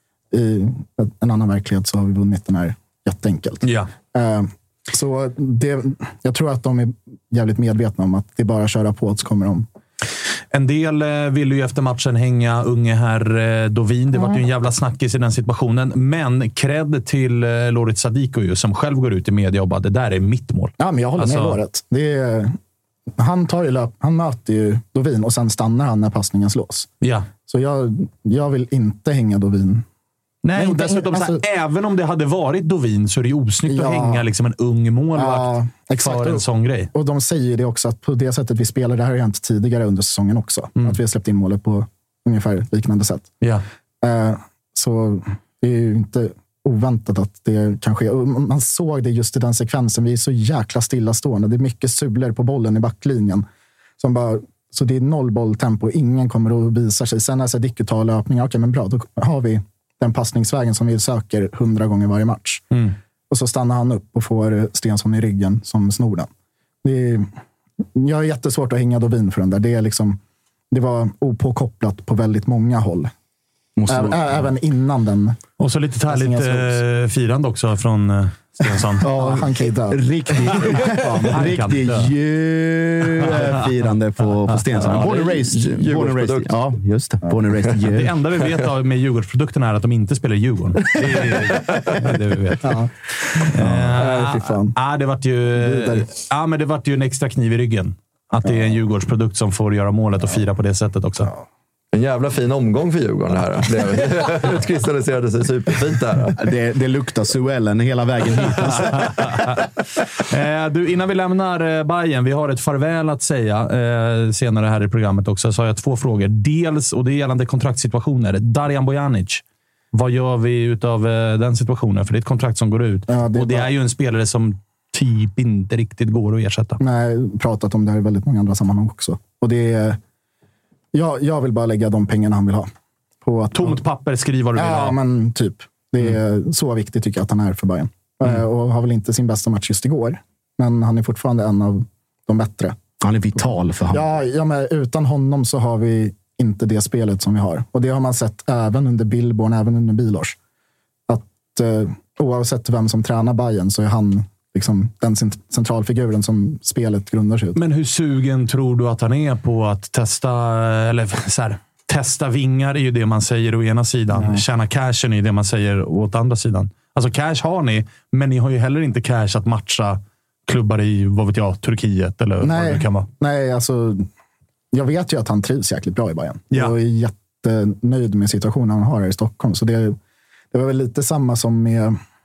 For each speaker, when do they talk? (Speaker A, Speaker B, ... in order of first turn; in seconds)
Speaker A: 0.3-9.7, 14.1-14.4, 20.8-22.6, 23.2-26.9, 27.4-29.9, 30.5-31.4, 33.7-34.3, 35.1-36.4, 36.9-43.3, 44.0-53.5, 54.0-62.6, 63.3-66.3, 66.8-67.3, 68.0-70.2, 70.7-73.1, 73.9-75.4, 76.1-76.8, 79.0-80.0, 92.6-92.9, 94.0-94.8, 95.6-96.1, 123.1-123.7, 126.8-130.0, 130.9-132.7, 133.2-133.8, 134.6-142.8, 143.4-150.4, 151.1-157.6, 164.1-164.4, 172.4-174.1, 174.7-180.0, 180.5-182.0
Speaker B: 3.6-3.9, 10.5-21.6, 27.0-27.3, 30.4-36.9, 75.6-79.1, 81.3-82.1, 84.5-85.1, 87.9-92.7, 93.5-101.3, 108.7-109.6, 110.3-119.4, 119.9-126.8, 133.6-135.0, 157.6-173.1
Speaker C: 73.8-74.5, 79.0-88.1, 93.6-93.9, 106.4-109.2, 143.0-144.1
Speaker D: 84.7-86.6, 101.9-106.4